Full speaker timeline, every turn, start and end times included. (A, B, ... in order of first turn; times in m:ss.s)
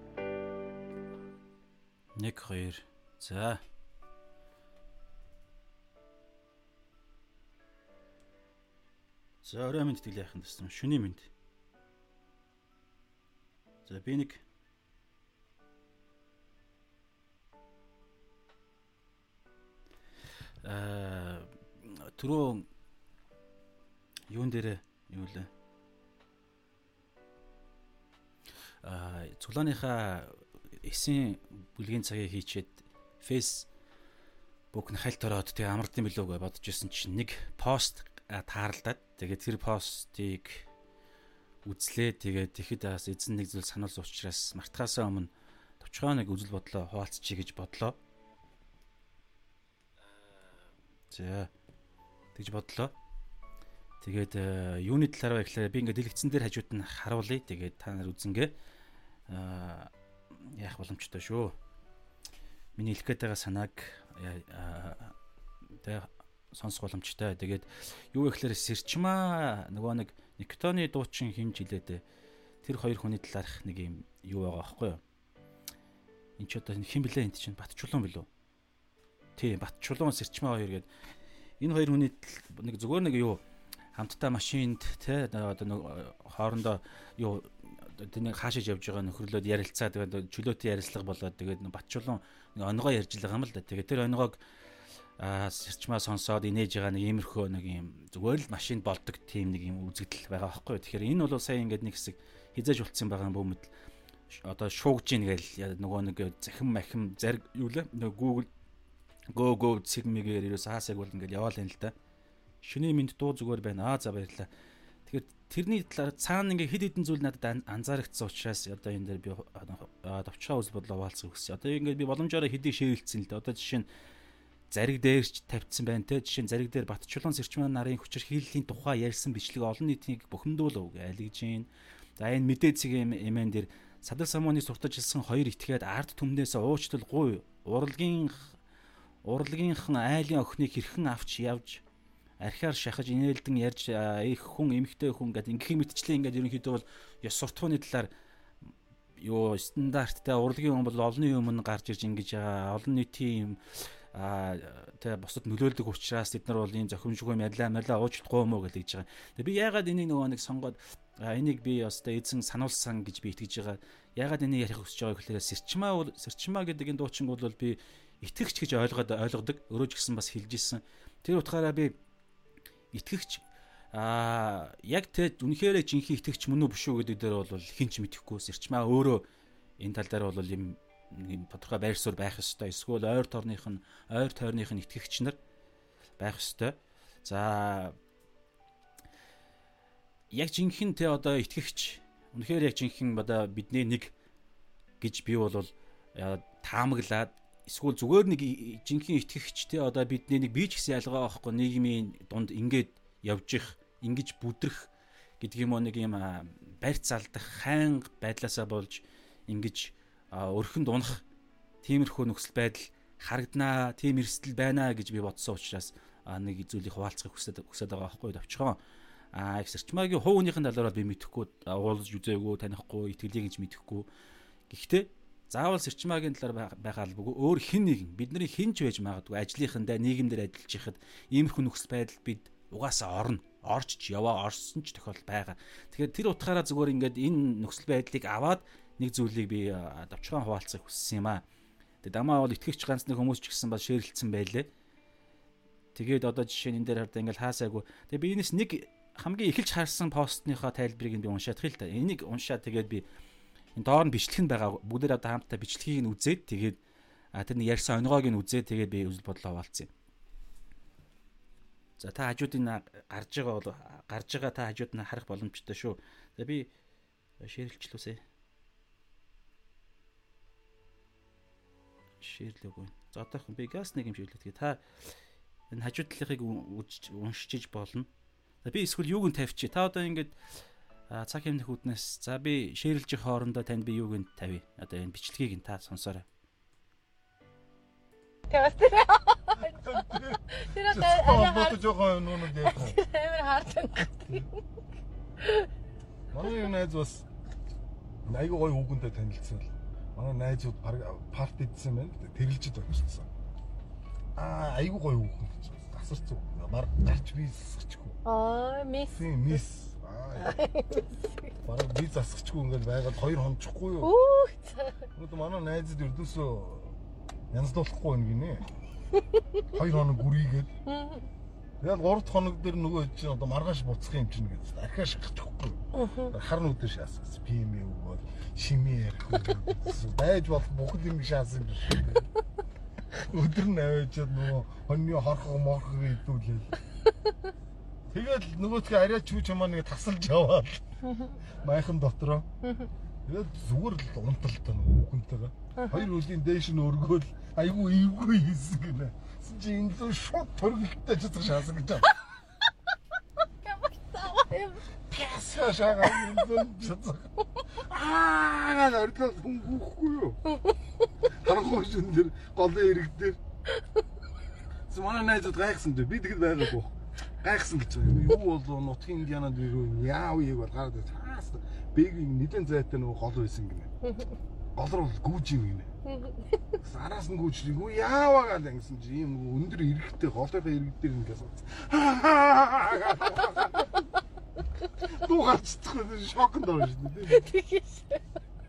0:02.2-0:03.6 A
0:09.4-0:11.3 A
0:13.9-0:14.4 A
0:20.6-0:22.7 A
0:24.3-0:25.5 A
0:28.8-0:33.7 A
0:34.7-0:40.7 A
0:41.6-0:48.0 A
0:51.1-0:51.5 A
0:52.4-0:52.9 A
0:54.0-0:58.5 A
0:59.3-0:59.9 A
1:00.4-1:01.5 A
1:02.8-1:05.1 A
1:05.8-1:12.0 A
1:12.6-1:15.0 A
1:16.4-1:18.3 A
1:19.4-1:20.9 A
1:21.6-1:23.4 A
1:24.0-1:34.4 A
1:35.2-1:43.7 A
1:44.3-1:48.5 A
1:49.3-1:51.9 A
1:52.6-1:54.5 A
1:55.1-2:03.9 A
2:04.7-2:18.6 A
2:19.2-2:21.8 A
2:22.4-2:28.1 A
2:29.2-2:52.0 A
2:52.9-2:59.2 A
2:59.8-3:05.4 A
3:06.2-3:08.0 A
3:10.3-3:14.1 A
3:15.0-3:31.2 A
3:31.8-3:38.8 A
3:39.3-3:44.1 A
3:44.7-4:01.4 A
4:02.0-4:04.7 A
4:06.0-4:13.0 A
4:13.8-4:16.8 A
4:17.4-4:19.9 A
4:22.0-4:26.7 A
4:27.4-4:28.2 A
4:32.2-4:34.8 A
4:35.7-4:38.1 A
4:38.6-4:40.4 A
4:41.1-4:46.2 A
4:48.5-4:49.9 B
4:49.7-4:53.0 C
4:50.5-4:51.8 B
4:52.5-4:54.5 B
4:55.4-4:55.7 B
4:56.3-4:57.3 C
4:58.3-5:03.3 C
5:04.4-5:08.2 C
5:08.2-5:09.6 B
5:09.1-5:10.6 C
5:10.4-5:11.5 B
5:11.6-5:14.1 C
5:14.0-5:15.1 B
5:15.2-5:17.0 C
5:17.5-5:18.7 C
5:19.7-5:20.7 C
5:20.9-5:21.3 B
5:21.8-5:32.3 C
5:26.0-5:26.3 B
5:33.2-5:36.7 C
5:38.1-5:42.5 C
5:43.2-5:52.1 C
5:45.8-5:46.0 B
5:53.6-5:54.8 B
5:55.1-6:00.4 C
6:01.3-6:03.4 C
6:04.9-6:13.9 C
6:14.8-6:15.9 C
6:16.8-6:23.9 C
6:25.0-6:27.4 C
6:27.3-6:28.2 B